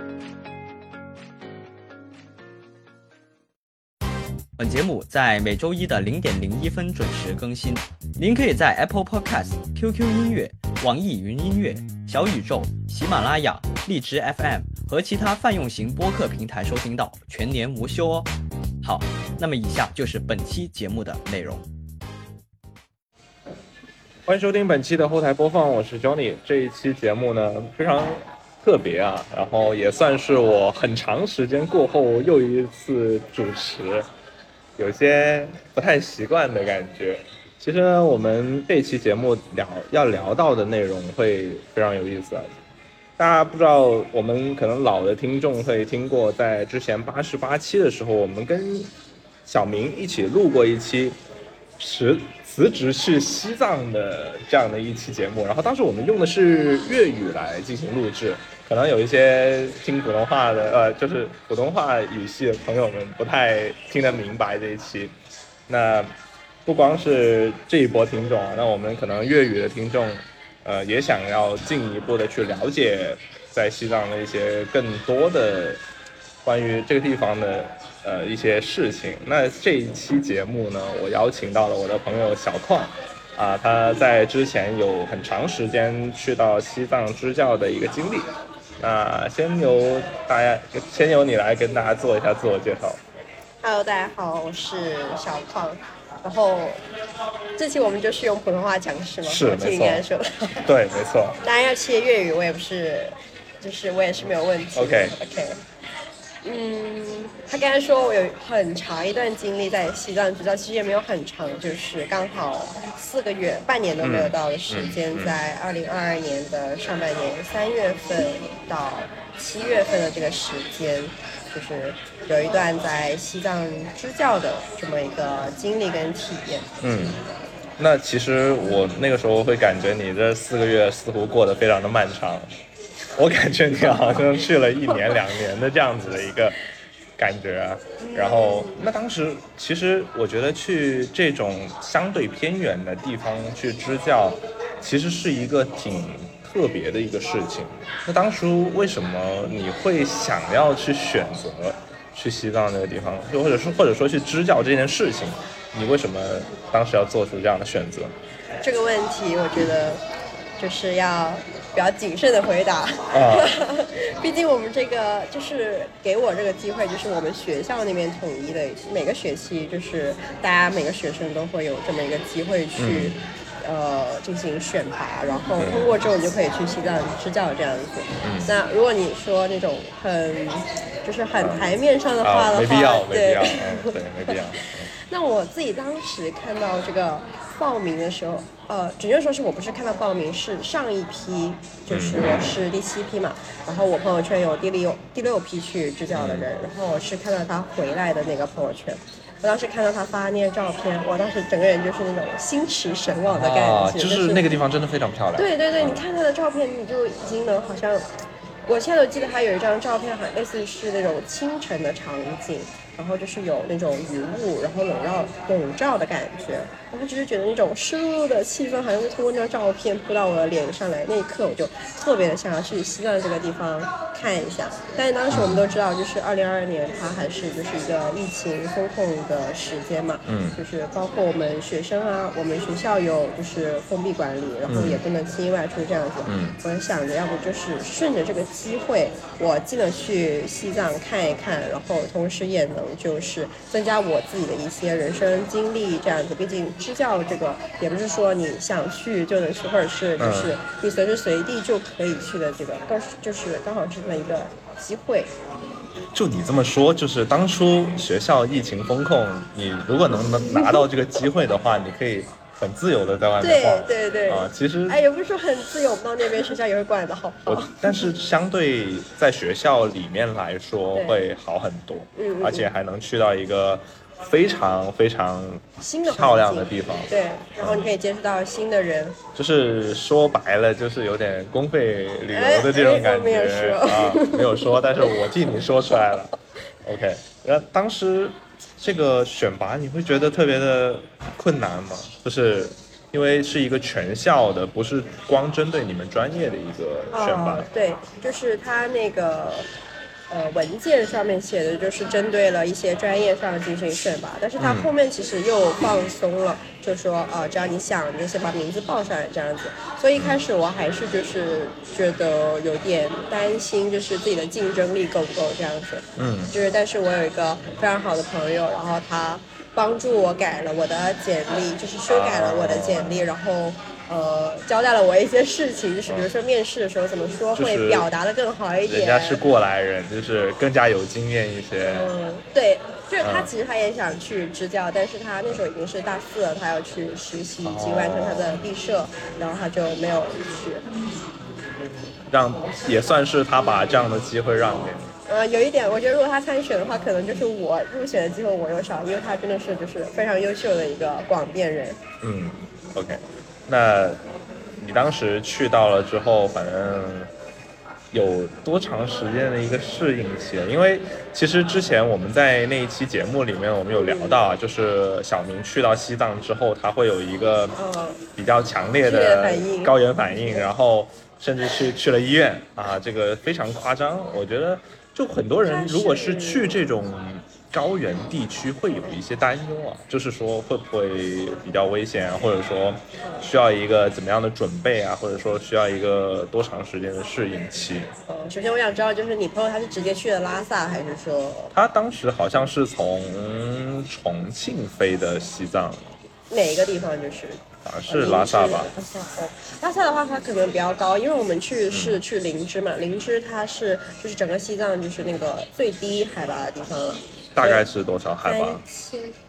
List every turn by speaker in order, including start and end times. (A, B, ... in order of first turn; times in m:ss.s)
0:04.6-0:18.3 A
0:18.8-0:21.6 A
0:24.3-0:34.1 B
0:34.8-0:42.5 B
0:43.2-0:48.9 B
0:49.4-0:51.2 B
0:51.8-1:05.1 B
1:05.7-1:06.1 B
1:06.7-1:15.8 B
1:16.4-1:33.0 B
1:33.6-1:36.8 C
1:37.6-1:40.7 C
1:39.2-1:40.0 B
1:40.7-1:41.4 B
1:41.4-1:45.6 C
1:44.7-1:45.2 B
1:46.4-2:06.7 C
1:54.0-1:55.4 B
2:06.8-2:07.2 B
2:07.8-2:12.5 B
2:13.1-2:16.6 B
2:17.2-2:38.1 B
2:18.0-2:18.8 C
2:38.6-2:40.0 C
2:40.6-3:24.6 C
2:43.1-2:43.5 B
2:52.8-2:53.2 B
2:55.6-2:56.0 B
2:58.2-2:58.5 B
3:02.2-3:04.9 B
3:11.9-3:12.6 B
3:16.1-3:16.5 B
3:23.3-3:26.0 B
3:25.4-3:28.1 C
3:28.7-4:15.3 C
3:45.3-3:45.7 B
3:50.3-3:50.6 B
3:54.7-3:55.0 B
3:56.3-3:56.6 B
4:10.2-4:10.6 B
4:16.1-4:25.0 B
4:20.3-4:20.9 C
4:23.4-4:28.0 C
4:27.5-4:37.9 B
4:30.9-4:31.3 C
4:32.2-4:32.7 C
4:35.8-4:39.2 C
4:39.4-4:57.7 B
4:42.3-4:45.1 C
4:57.1-4:59.7 C
5:00.3-5:29.4 C
5:04.6-5:04.9 B
5:16.2-5:16.5 B
5:22.1-5:23.3 B
5:27.6-5:28.1 B
5:28.9-5:32.1 B
5:31.8-5:40.9 C
5:33.2-5:33.5 B
5:37.6-5:38.6 B
5:42.3-5:45.1 B
5:45.3-5:52.0 C
5:52.2-5:54.2 B
5:54.8-5:57.3 B
5:58.1-6:07.8 B
6:03.9-6:04.5 C
6:07.8-6:08.2 C
6:08.4-6:28.1 B
6:09.0-6:10.0 C
6:15.6-6:16.8 C
6:28.3-6:31.7 C
6:31.7-6:36.1 B
6:36.5-6:47.8 C
6:37.8-6:38.9 B
6:41.9-6:42.2 B
6:47.6-6:48.8 B
6:48.4-6:49.4 C